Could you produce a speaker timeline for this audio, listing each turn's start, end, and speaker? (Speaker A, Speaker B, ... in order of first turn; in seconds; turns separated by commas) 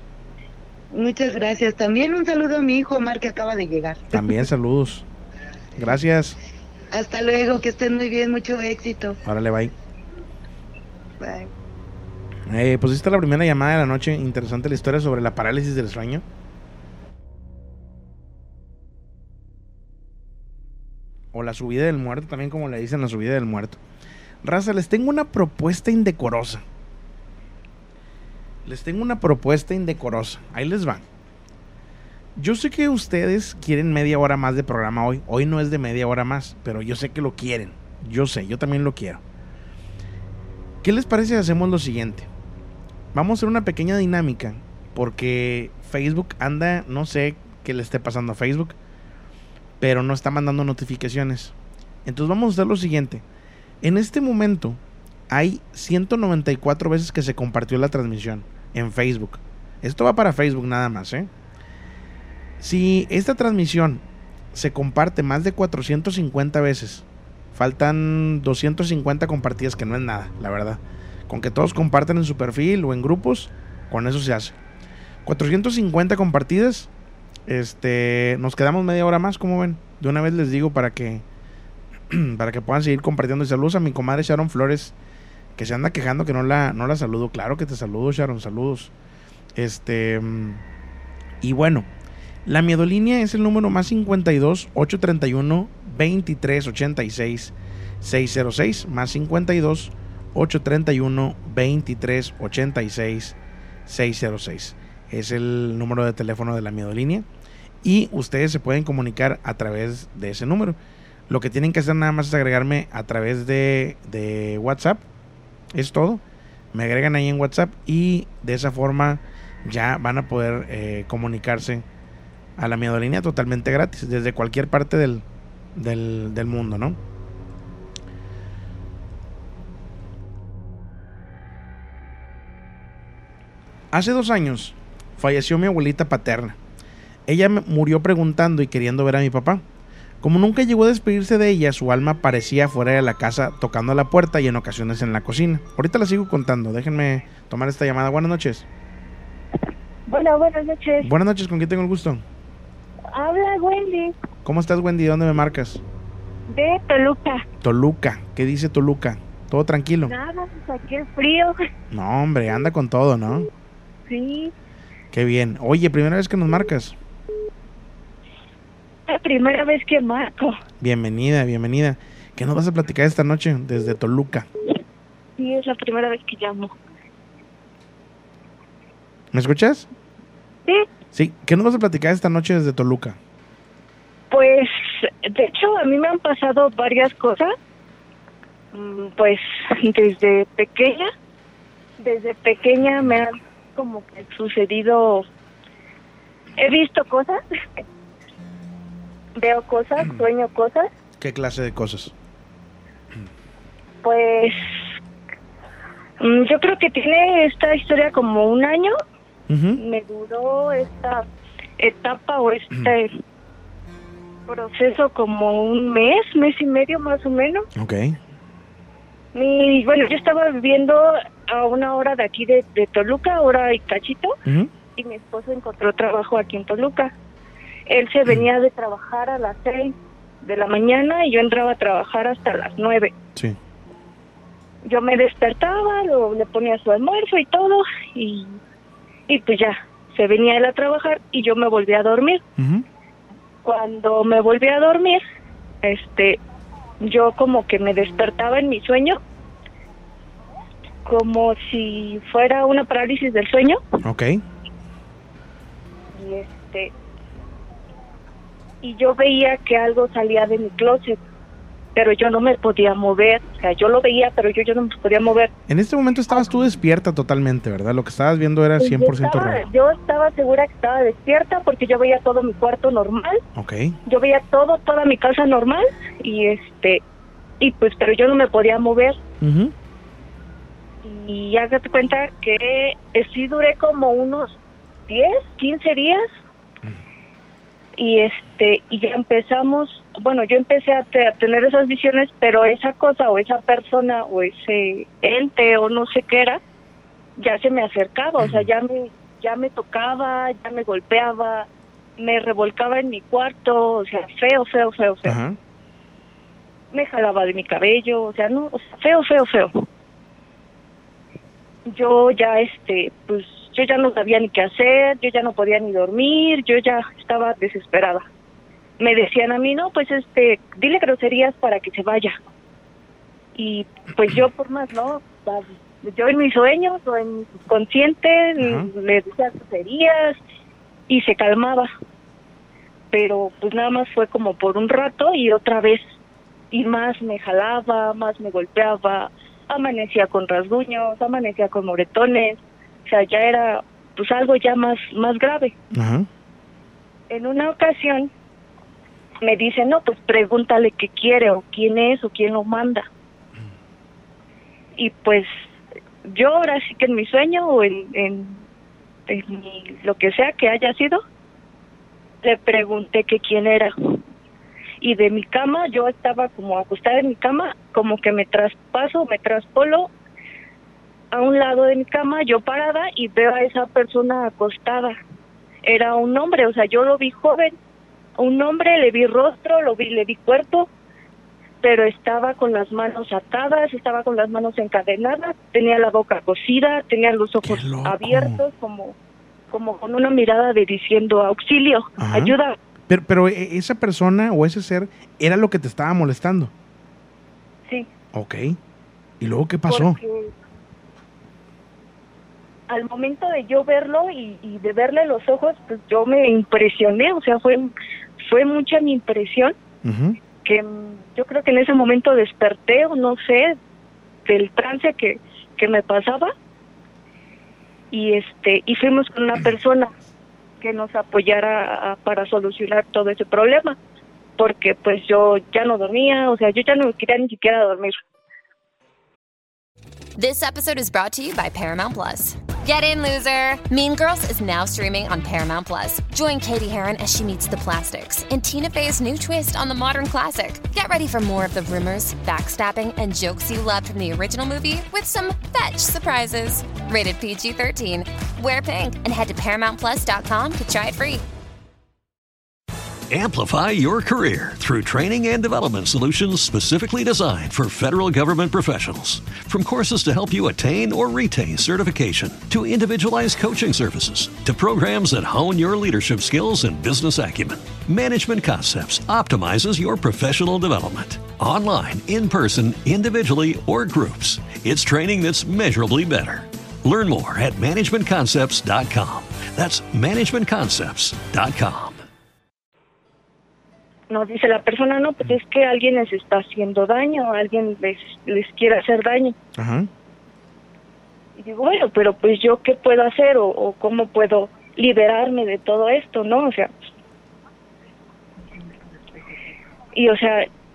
Speaker A: 0.9-4.4, Speaker B: 4.1-5.1, Speaker B: 5.8-6.4, Speaker A: 6.9-9.2, Speaker B: 9.2-9.7, Speaker A: 11.2-11.5, Speaker B: 12.5-16.2, Speaker B: 21.3-23.8, Speaker B: 24.4-26.6, Speaker B: 28.7-31.0, Speaker B: 32.4-39.2, Speaker B: 40.8-42.3, Speaker B: 43.1-48.8, Speaker B: 49.8-51.5, Speaker B: 52.0-53.2, Speaker B: 53.8-54.8, Speaker B: 55.3-61.3, Speaker B: 62.6-64.0, Speaker B: 64.5-67.0, Speaker B: 67.5-74.6, Speaker B: 75.3-76.9, Speaker B: 77.5-81.2, Speaker B: 82.1-85.0, Speaker B: 85.6-88.9, Speaker B: 89.6-90.6, Speaker B: 91.4-91.9, Speaker B: 92.5-103.4, Speaker B: 103.9-107.3, Speaker B: 107.8-110.8, Speaker B: 111.3-115.0, Speaker B: 115.7-116.2, Speaker B: 116.7-121.8, Speaker B: 122.6-125.2, Speaker B: 125.8-127.0, Speaker B: 133.9-136.6, Speaker B: 137.3-139.6, Speaker B: 140.2-148.7, Speaker C: 150.1-151.1, Speaker B: 151.0-152.2, Speaker C: 153.1-154.1, Speaker B: 154.4-155.8, Speaker C: 156.5-157.4, Speaker B: 157.6-160.1, Speaker C: 160.1-161.6, Speaker B: 161.9-163.5, Speaker C: 164.1-164.5, Speaker B: 165.1-167.0, Speaker C: 169.1-170.6, Speaker B: 170.8-174.5, Speaker C: 175.4-176.7, Speaker B: 179.3-179.9, Speaker B: 181.1-183.2, Speaker C: 184.3-187.5, Speaker C: 188.7-191.1, Speaker C: 192.0-195.2, Speaker C: 196.6-197.8, Speaker C: 199.4-200.9, Speaker B: 201.2-202.1, Speaker C: 204.0-204.6, Speaker C: 206.2-208.9, Speaker B: 209.5-209.8, Speaker C: 209.8-211.2, Speaker C: 211.8-213.1, Speaker C: 214.5-217.7, Speaker B: 217.8-218.2, Speaker C: 219.3-224.3, Speaker B: 224.4-224.7, Speaker C: 225.0-227.1, Speaker C: 227.9-233.1, Speaker C: 234.9-238.6, Speaker C: 239.3-242.4, Speaker B: 242.6-242.8, Speaker C: 243.6-245.2, Speaker C: 245.8-246.4, Speaker C: 247.0-249.2, Speaker C: 251.0-253.8, Speaker B: 254.0-254.4, Speaker C: 256.1-256.9, Speaker C: 258.8-261.2, Speaker C: 262.0-265.5, Speaker B: 265.7-269.6, Speaker C: 266.3-266.6, Speaker C: 268.8-273.4, Speaker B: 273.6-274.0, Speaker C: 274.1-277.0, Speaker C: 277.6-279.2, Speaker B: 279.4-279.7, Speaker C: 281.0-284.6, Speaker C: 285.1-286.2, Speaker C: 288.0-296.6, Speaker C: 297.4-301.7, Speaker B: 298.4-298.7, Speaker C: 302.2-305.4, Speaker B: 305.2-305.6, Speaker C: 306.9-309.8, Speaker C: 311.9-318.2, Speaker C: 319.0-322.3, Speaker C: 323.6-330.4, Speaker B: 328.6-328.9, Speaker C: 331.1-331.9, Speaker C: 333.1-336.0, Speaker C: 336.7-345.7, Speaker B: 345.9-346.3, Speaker C: 347.3-348.3, Speaker C: 349.4-353.1, Speaker C: 355.0-355.5, Speaker C: 356.2-358.6, Speaker C: 359.3-361.2, Speaker C: 362.4-363.9, Speaker C: 365.0-370.1, Speaker C: 371.3-375.2, Speaker C: 375.8-377.8, Speaker C: 378.4-380.9, Speaker C: 381.8-389.1, Speaker B: 387.6-388.6, Speaker C: 389.7-392.8, Speaker B: 392.2-392.5, Speaker B: 393.1-396.7, Speaker B: 398.3-398.8, Speaker B: 399.4-400.2, Speaker C: 399.9-400.5, Speaker C: 402.9-409.8, Speaker B: 410.0-410.4, Speaker C: 410.6-413.8, Speaker C: 414.5-416.5, Speaker C: 418.1-420.1, Speaker C: 420.8-424.0, Speaker C: 424.6-428.1, Speaker D: 430.4-451.4, Speaker E: 453.3-482.2, Speaker C: 484.3-489.6, Speaker B: 489.8-490.1, Speaker C: 491.6-496.9, Speaker C: 500.1-500.7